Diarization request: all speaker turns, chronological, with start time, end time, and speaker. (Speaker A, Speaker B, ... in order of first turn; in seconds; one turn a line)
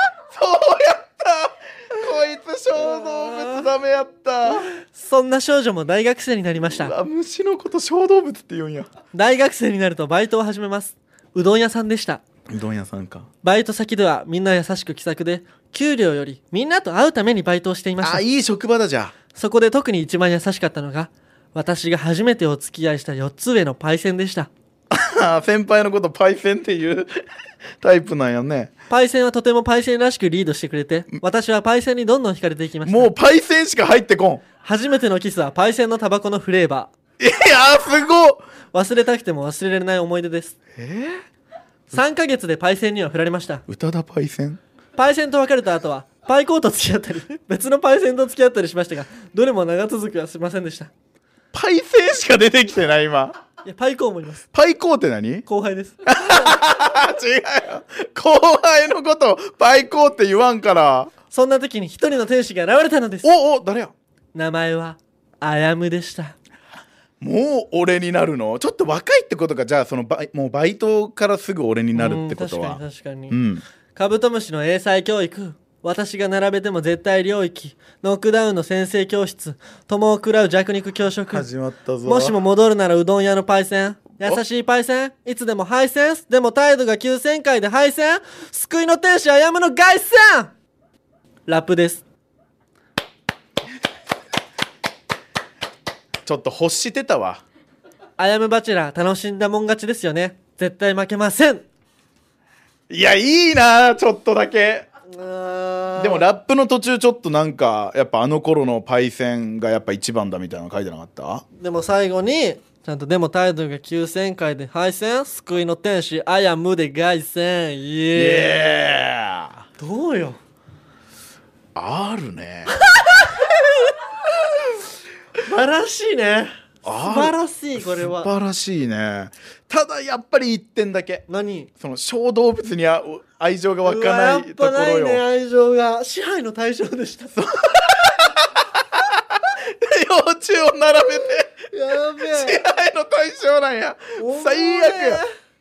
Speaker A: 0.3-4.7
Speaker B: 2.8-3.7
Speaker B: 4.8-6.9
Speaker A: 6.7-8.9
Speaker B: 9.1-12.2
Speaker A: 12.5-13.3
Speaker B: 13.4-18.2
Speaker A: 18.0-19.1
Speaker B: 19.3-24.5
Speaker A: 24.9-27.1
Speaker A: 27.8-28.7
Speaker B: 28.9-33.1
Speaker A: 32.8-34.4
Speaker B: 34.6-36.9
Speaker A: 37.2-38.4
Speaker B: 38.7-40.5
Speaker A: 40.7-41.2
Speaker B: 41.9-43.6
Speaker A: 43.7-44.6
Speaker B: 45.0-50.9
Speaker A: 51.5-53.4
Speaker B: 53.6-54.4
Speaker A: 54.5-55.4
Speaker B: 55.5-56.5
Speaker A: 56.0-61.1
Speaker B: 61.3-63.3
Speaker A: 63.2-63.9
Speaker B: 64.3-66.3
Speaker A: 67.2-73.6
Speaker B: 71.9-73.4
Speaker B: 73.9-81.5
Speaker A: 81.3-82.4
Speaker B: 82.0-90.5
Speaker B: 91.5-92.0
Speaker A: 96.2-97.4
Speaker B: 98.2-101.6
Speaker A: 102.9-104.8
Speaker B: 105.1-106.3
Speaker A: 106.0-111.4
Speaker B: 111.6-118.7
Speaker A: 118.1-119.6
Speaker B: 119.8-120.4
Speaker A: 121.7-122.8
Speaker B: 122.9-123.5
Speaker B: 125.4-128.3
Speaker A: 126.8-131.2
Speaker B: 131.3-131.7
Speaker A: 131.8-135.2
Speaker B: 133.8-137.3
Speaker A: 137.3-141.7
Speaker B: 141.7-142.6
Speaker A: 142.2-145.2
Speaker B: 144.2-145.3